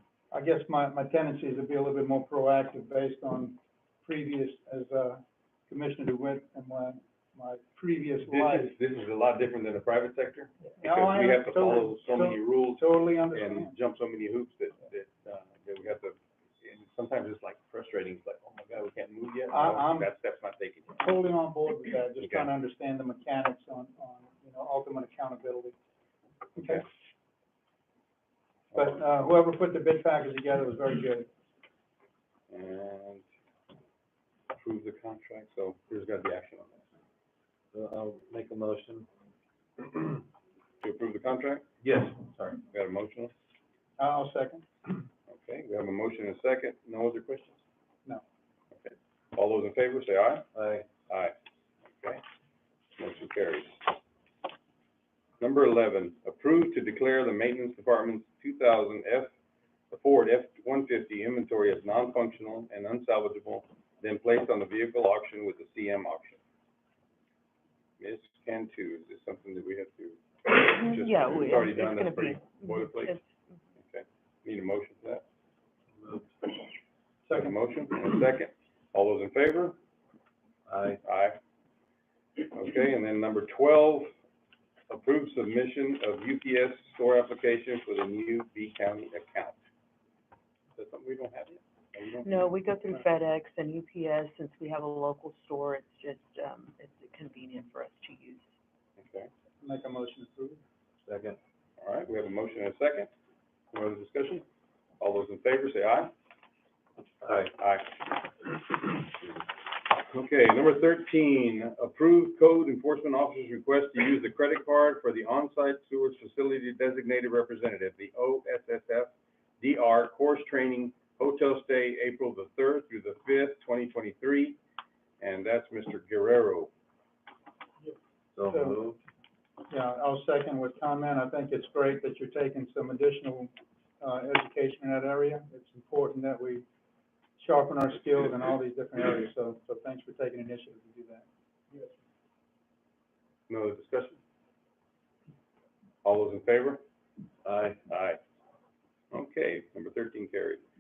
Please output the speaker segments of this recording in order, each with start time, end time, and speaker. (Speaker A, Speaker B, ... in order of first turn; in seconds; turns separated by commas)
Speaker A: 0.3-8.8, Speaker B: 8.2-21.1, Speaker A: 10.8-13.7, Speaker A: 19.5-20.1, Speaker A: 21.0-25.8, Speaker B: 22.2-22.5, Speaker A: 26.6-26.8, Speaker A: 28.7-31.3, Speaker B: 32.5-33.2, Speaker B: 34.5-36.9, Speaker C: 37.7-39.1, Speaker B: 40.8-41.7, Speaker C: 41.8-42.6, Speaker B: 42.7-43.3, Speaker A: 44.0-44.7, Speaker B: 45.3-47.6, Speaker B: 48.7-50.5, Speaker C: 50.5-50.9, Speaker B: 51.1-51.4, Speaker B: 53.0-53.9, Speaker B: 55.4-59.3, Speaker B: 59.9-66.4, Speaker B: 68.0-73.2, Speaker D: 70.6-73.3, Speaker B: 73.8-75.2, Speaker C: 76.0-76.3, Speaker A: 77.3-77.5, Speaker B: 77.3-79.8, Speaker C: 80.7-81.0, Speaker B: 81.0-81.4, Speaker B: 82.4-84.1, Speaker B: 84.9-89.6, Speaker B: 90.8-92.5, Speaker D: 92.2-98.5, Speaker B: 99.0-99.3, Speaker A: 99.6-100.6, Speaker C: 101.1-101.4, Speaker B: 101.8-103.1, Speaker B: 103.7-104.5, Speaker B: 105.0-106.1, Speaker C: 107.2-107.5, Speaker B: 107.5-109.2, Speaker B: 109.9-124.6, Speaker B: 125.2-126.7, Speaker C: 128.3-129.0, Speaker A: 128.5-128.8, Speaker A: 129.7-136.7, Speaker A: 137.4-141.8, Speaker B: 143.5-144.2, Speaker B: 146.0-146.8, Speaker C: 147.4-147.8, Speaker B: 147.9-148.2, Speaker B: 149.1-150.6